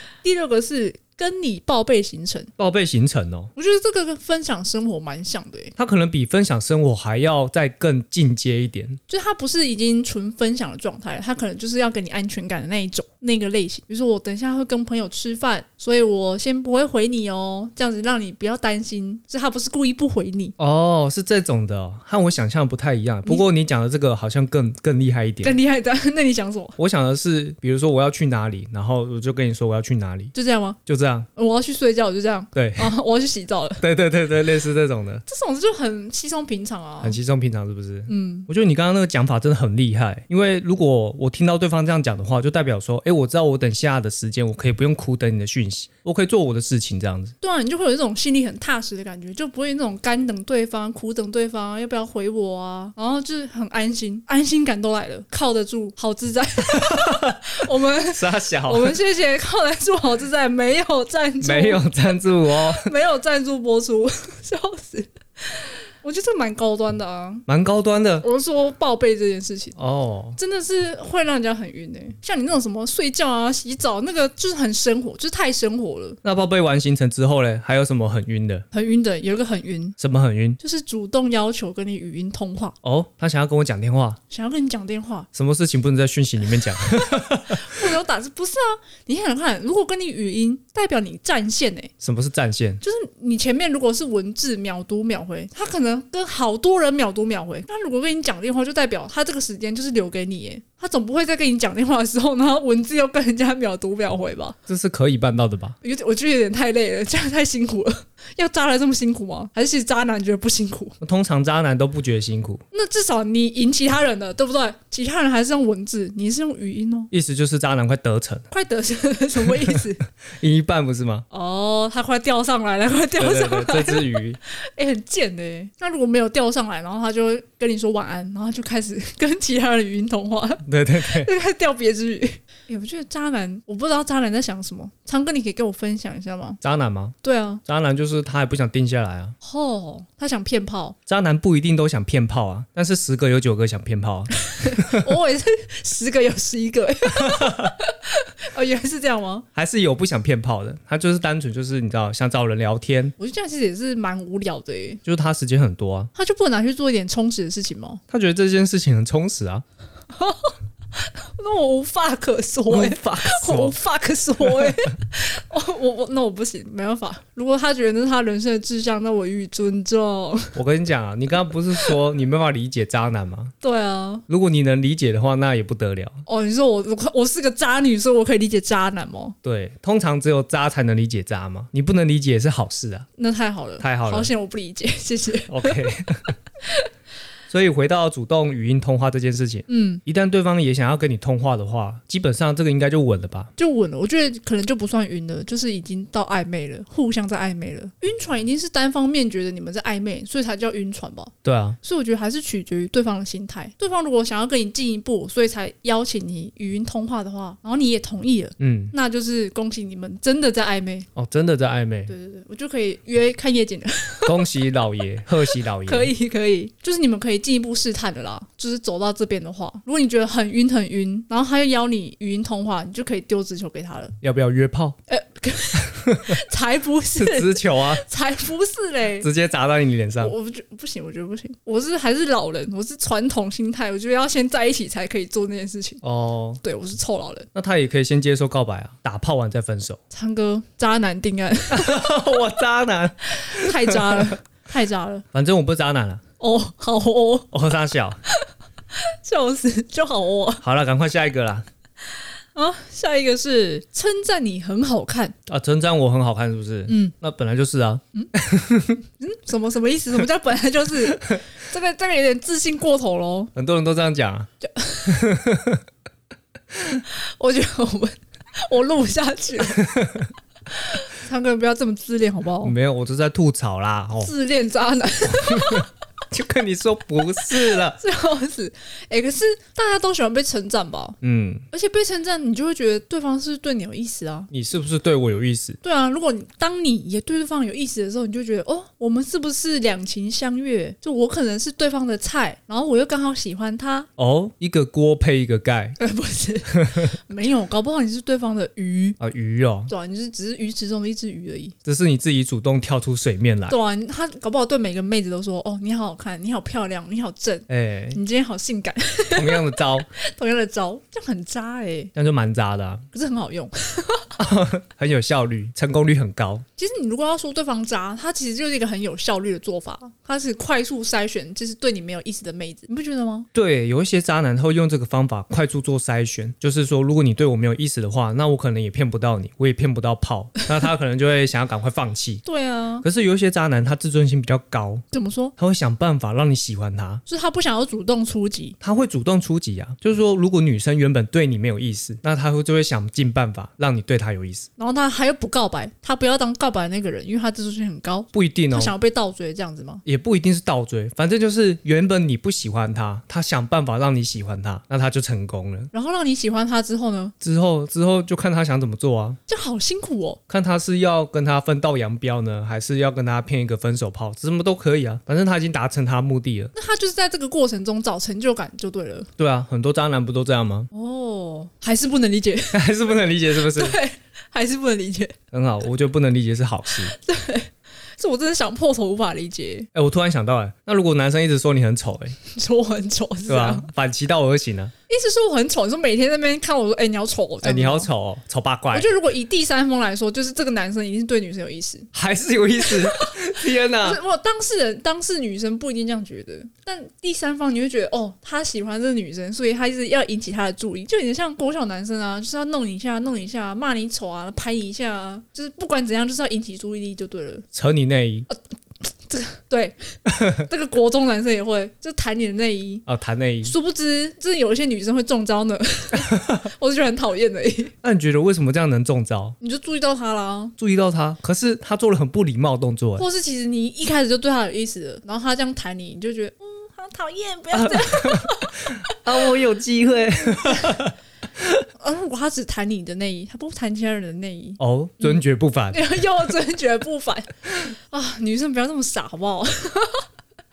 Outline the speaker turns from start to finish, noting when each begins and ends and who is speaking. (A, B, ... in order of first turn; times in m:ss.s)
0:00.2-0:02.5 A
0:02.6-0:03.5 B
0:03.6-0:05.8 A
0:05.8-0:09.0 B
0:09.1-0:20.6 A
0:20.6-0:25.6 B
0:25.4-0:26.8 A
0:26.8-0:30.3 B
0:30.3-0:30.8 A
0:30.9-0:31.3 B
0:31.4-0:33.8 A
0:32.6-0:32.9 B
0:33.8-0:35.2 B
0:35.3-0:37.2 A
0:37.0-0:47.4 B
0:38.1-0:38.5 A
0:47.4-1:01.9 A
0:56.7-0:59.0 B
1:01.4-1:02.9 B
1:02.5-1:07.4 A
1:07.5-1:08.2 B
1:08.2-1:09.8 A
1:09.8-1:10.4 B
1:10.4-1:16.2 A
1:16.2-1:18.6 B
1:18.7-1:20.0 A
1:20.0-1:20.6 B
1:20.6-1:22.8 A
1:22.8-1:24.2 B
1:24.3-1:25.3 A
1:25.3-1:27.7 B
1:26.7-1:31.9 A
1:32.0-1:32.8 B
1:32.8-1:44.6 A
1:44.7-1:45.8 B
1:45.8-1:51.0 A
1:51.0-1:52.6 B
1:52.7-1:57.1 A
1:57.1-1:58.5 B
1:58.5-2:00.0 A
2:00.4-2:01.3 B
2:01.3-2:16.6 A
2:03.2-2:04.4 B
2:10.7-2:11.3 B
2:16.6-2:19.4 B
2:17.2-2:17.6 A
2:19.4-2:21.0 A
2:21.1-2:25.1 B
2:24.5-2:29.5 A
2:27.2-2:27.7 B
2:29.6-2:33.1 B
2:33.2-2:35.0 A
2:35.0-2:36.1 B
2:36.2-2:38.0 A
2:38.1-2:39.6 B
2:40.1-2:50.6 A
2:42.7-2:43.8 B
2:50.6-2:53.5 B
2:53.6-2:54.2 A
2:54.3-2:56.2 B
2:56.3-2:59.4 A
2:59.4-3:03.1 B
3:03.2-3:05.9 A
3:03.8-3:04.3 B
3:05.5-3:06.4 B
3:06.6-3:06.9 A
3:07.5-3:13.5 B
3:09.7-3:10.0 A
3:13.6-3:31.1 A
3:21.4-3:21.8 B
3:28.6-3:28.9 B
3:31.2-3:32.1 B
3:32.1-3:34.5 A
3:34.3-3:36.1 B
3:35.5-3:44.2 A
3:44.2-3:45.0 B
3:45.1-3:49.3 A
3:45.9-3:46.4 B
3:47.2-3:48.0 B
3:49.2-3:50.3 B
3:50.2-3:56.0 A
3:56.0-3:56.6 B
3:56.6-3:57.5 A
3:57.5-4:00.0 B
4:00.1-4:02.1 A
4:01.7-4:04.4 B
4:03.3-4:05.3 A
4:05.3-4:06.2 B
4:06.4-4:07.6 A
4:07.5-4:08.2 B
4:08.3-4:10.6 A
4:10.6-4:11.7 B
4:12.6-4:15.4 A
4:15.5-4:19.0 B
4:16.9-4:17.1 A
4:19.2-4:23.5 A
4:23.6-4:24.5 B
4:24.6-4:25.3 A
4:25.1-4:25.8 B
4:27.1-4:30.0 A
4:29.8-4:30.3 B
4:30.7-4:32.8 A
4:32.6-4:34.3 B
4:34.2-4:35.9 A
4:35.5-4:38.0 B
4:37.6-4:41.2 A
4:41.2-4:41.6 B
4:41.7-4:44.5 A
4:44.5-4:45.8 B
4:45.8-4:54.1 A
4:54.2-4:56.0 B
4:56.0-4:59.2 A
4:59.2-4:59.9 B
4:59.9-5:01.8 A
5:01.8-5:03.8 B
5:03.7-5:12.1 A
5:07.7-5:08.2 B
5:09.3-5:10.1 B
5:12.2-5:13.1 B
5:13.1-5:14.3 A
5:14.4-5:16.6 B
5:16.8-5:23.5 A
5:23.5-5:32.4 B
5:32.4-5:33.1 A
5:33.0-5:35.0 B
5:35.1-5:35.5 A
5:35.6-5:37.2 B
5:37.3-5:38.8 A
5:38.8-5:44.7 B
5:44.8-5:50.0 A
5:48.3-5:48.9 B
5:50.1-5:55.9 B
5:55.9-5:57.3 A
5:57.4-5:59.4 B
5:59.5-6:00.4 A
6:00.5-6:06.7 B
6:06.7-6:09.3 A
6:09.4-6:10.9 B
6:10.9-6:12.8 A
6:12.7-6:14.0 B
6:13.6-6:15.4 A
6:15.5-6:17.1 B
6:16.9-6:19.9 A
6:19.9-6:22.4 B
6:22.5-6:23.9 A
6:23.5-6:24.9 B
6:25.1-6:28.1 A
6:27.6-6:29.1 B
6:28.9-6:32.1 A
6:32.1-6:34.2 B
6:32.8-6:47.7 A
6:47.7-6:48.5 B
6:49.3-6:53.0 A
6:53.1-6:53.7 B
6:53.6-6:57.9 A
6:56.3-6:56.6 B
6:58.0-6:59.6 B
6:59.6-7:00.8 A
7:00.8-7:03.2 B
7:03.2-7:09.1 A
7:07.7-7:11.8 B
7:10.7-7:11.0 A
7:12.0-7:15.4 A
7:14.8-7:16.0 B
7:15.9-7:20.3 A